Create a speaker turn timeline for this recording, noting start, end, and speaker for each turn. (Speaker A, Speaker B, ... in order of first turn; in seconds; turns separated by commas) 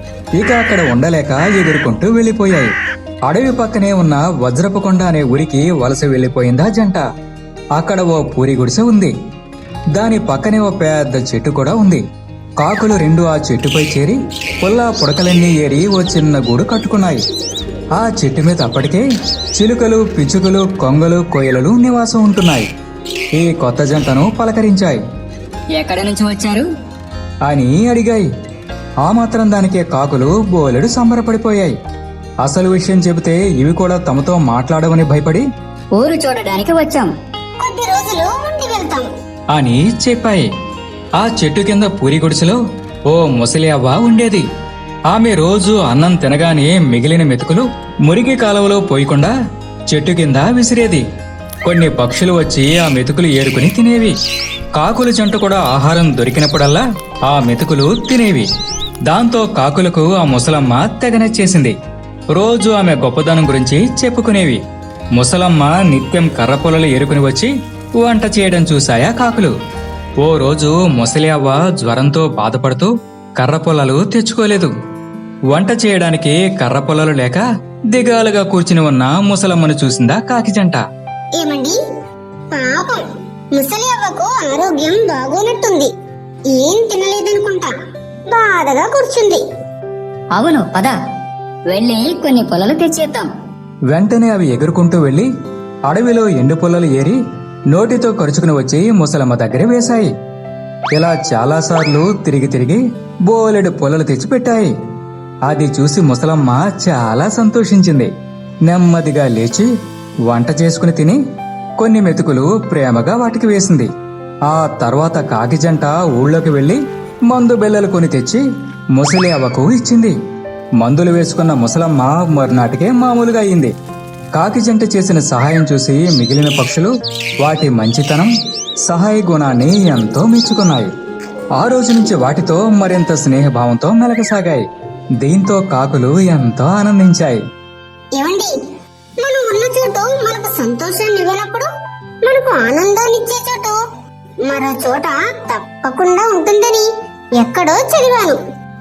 Speaker A: 0.4-2.7, Speaker A: 3.3-7.0, Speaker A: 7.8-9.1, Speaker A: 9.9-12.0, Speaker A: 12.6-17.2, Speaker A: 17.9-19.0, Speaker A: 19.6-22.7, Speaker A: 23.4-25.0, Speaker B: 25.7-26.7, Speaker A: 27.4-28.3, Speaker A: 29.0-31.7, Speaker A: 32.4-35.4, Speaker B: 36.0-37.1, Speaker C: 37.6-39.1, Speaker A: 39.5-40.5, Speaker A: 41.2-44.4, Speaker A: 45.1-49.3, Speaker A: 49.9-51.0, Speaker A: 51.6-54.1, Speaker A: 54.8-58.5, Speaker A: 59.1-61.7, Speaker A: 62.4-64.6, Speaker A: 65.2-67.5, Speaker A: 68.0-69.5, Speaker A: 70.2-74.7, Speaker A: 75.5-80.8, Speaker C: 81.4-81.8, Speaker C: 82.5-83.0, Speaker C: 83.5-85.9, Speaker C: 86.5-87.7, Speaker C: 88.3-89.4, Speaker B: 90.3-91.0, Speaker B: 91.7-93.3, Speaker A: 93.9-95.3, Speaker A: 95.9-97.2, Speaker A: 97.7-100.1, Speaker A: 100.9-104.7, Speaker A: 105.5-108.1, Speaker A: 108.7-109.7, Speaker A: 110.3-111.2, Speaker A: 111.8-113.9, Speaker A: 114.5-118.4, Speaker A: 118.9-120.1, Speaker A: 120.8-123.7, Speaker A: 124.3-128.3, Speaker A: 128.9-130.9, Speaker A: 131.6-134.6, Speaker A: 135.2-137.4, Speaker C: 138.2-138.5, Speaker C: 139.2-141.7, Speaker C: 142.2-143.8, Speaker C: 144.5-146.9, Speaker C: 147.4-148.4